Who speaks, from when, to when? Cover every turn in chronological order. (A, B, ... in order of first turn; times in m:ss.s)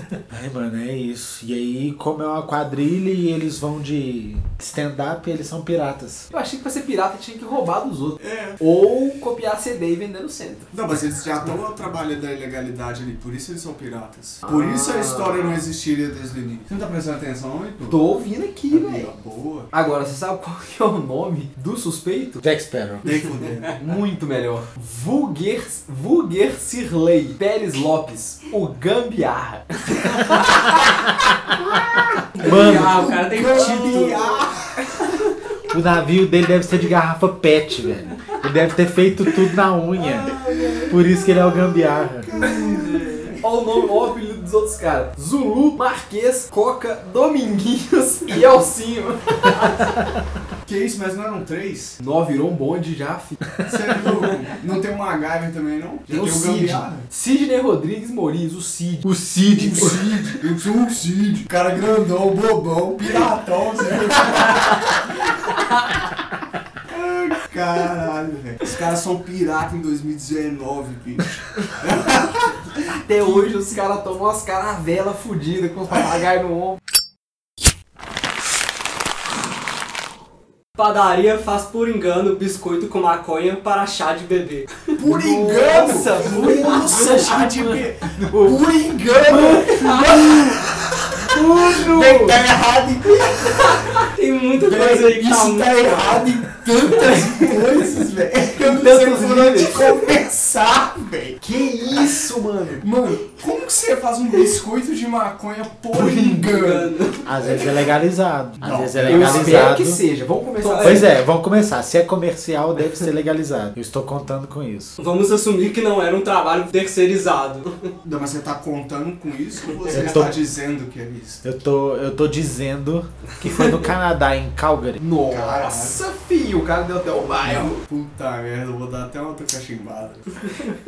0:00.3-0:06.3 A
0:06.3-0:10.7 B
0:08.2-0:08.6 C
0:10.7-0:18.0 C
0:14.4-0:15.6 B
0:17.9-0:19.1 B
0:18.7-0:19.7 C
0:19.7-0:22.4 B
0:22.4-0:23.1 A
0:23.0-0:24.0 C
0:23.8-0:30.5 B
0:32.4-0:34.9 C
0:32.4-0:33.2 A
0:32.4-0:34.4 D
0:35.7-0:40.4 A
0:40.0-0:41.0 B
0:40.2-0:43.5 C
0:40.9-0:42.3 A
0:42.8-0:43.2 D
0:43.4-0:49.8 B
0:50.6-0:52.0 C
0:52.0-0:53.4 B
0:53.7-0:57.1 C
0:56.1-1:00.3 B
0:59.5-1:04.9 C
1:06.9-1:13.5 C
1:12.9-1:16.8 B
1:20.8-1:24.8 D
1:25.0-1:30.5 C
1:25.0-1:30.2 B
1:29.7-1:30.6 D
1:31.2-1:32.4 B
1:31.4-1:34.0 C
1:33.6-1:36.2 D
1:34.6-1:41.4 C
1:36.8-1:37.5 B
1:38.6-1:40.0 B
1:41.4-1:42.8 B
1:41.9-1:42.2 C
1:42.8-1:46.9 C
1:46.4-1:47.6 D
1:47.3-1:50.0 A
1:48.6-1:49.7 C
1:49.0-1:51.1 B
1:50.6-1:51.0 D
1:50.8-1:55.0 A
1:55.0-1:57.9 D
1:58.0-2:01.4 C
1:59.8-2:00.3 D
1:59.9-2:00.4 A
2:01.4-2:05.0 A
2:05.0-2:07.8 B
2:05.2-2:06.0 C
2:07.4-2:10.4 C